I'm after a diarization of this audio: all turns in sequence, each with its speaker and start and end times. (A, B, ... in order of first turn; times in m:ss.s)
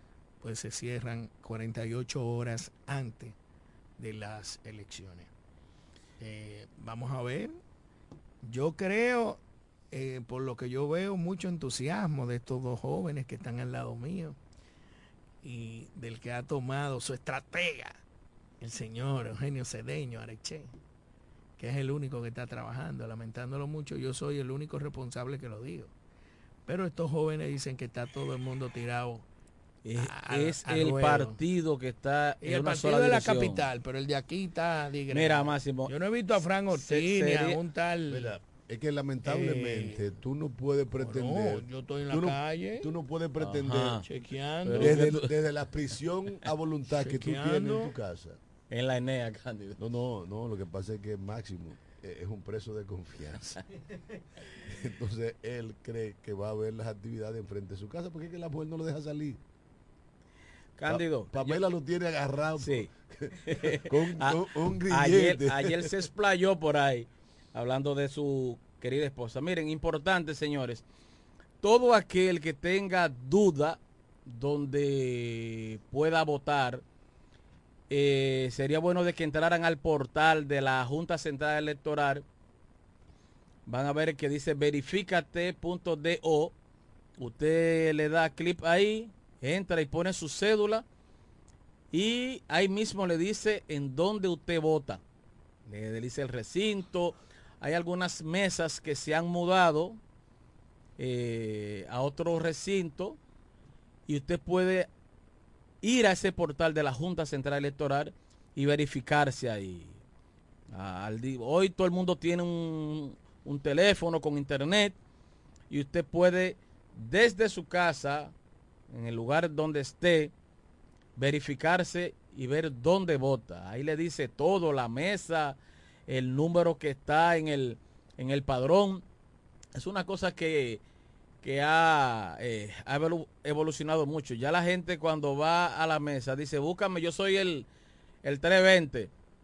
0:00.4-0:03.4 A
0:04.0-0:05.3 A
0:06.2-0:07.6 A
0:08.4-0:09.4 A
0:09.9-0:14.4 A
0:15.4-0:18.0 A
0:18.6-0:20.7 A
0:21.6-0:25.9 A
0:26.7-0:29.3 A
0:29.8-0:33.7 B
0:30.0-0:31.4 A
0:32.4-0:38.3 A
0:35.1-0:35.9 B
0:36.7-0:37.6 B
0:38.1-0:44.0 C
0:39.2-0:40.1 A
0:41.0-0:43.0 A
0:43.4-0:44.0 B
0:44.0-0:45.2 A
0:44.6-0:45.3 B
0:44.7-0:48.4 C
0:46.9-0:48.0 A
0:48.7-0:49.8 B
0:49.8-0:53.6 C
0:54.6-0:59.4 C
1:00.8-1:01.6 B
1:00.9-1:05.9 C
1:02.6-1:02.9 B
1:03.5-1:10.8 B
1:11.6-1:16.8 B
1:17.9-1:22.2 B
1:23.7-1:26.6 B
1:27.2-1:30.8 B
1:31.9-1:35.0 B
1:35.7-1:40.0 B
1:41.0-1:43.2 B
1:44.1-1:44.9 B
1:45.8-1:50.0 B
1:50.7-1:55.0 B
1:55.7-1:58.3 B
1:58.9-2:00.3 B
2:01.2-2:09.0 B
2:09.8-2:10.8 B
2:11.4-2:17.7 B
2:18.2-2:19.1 B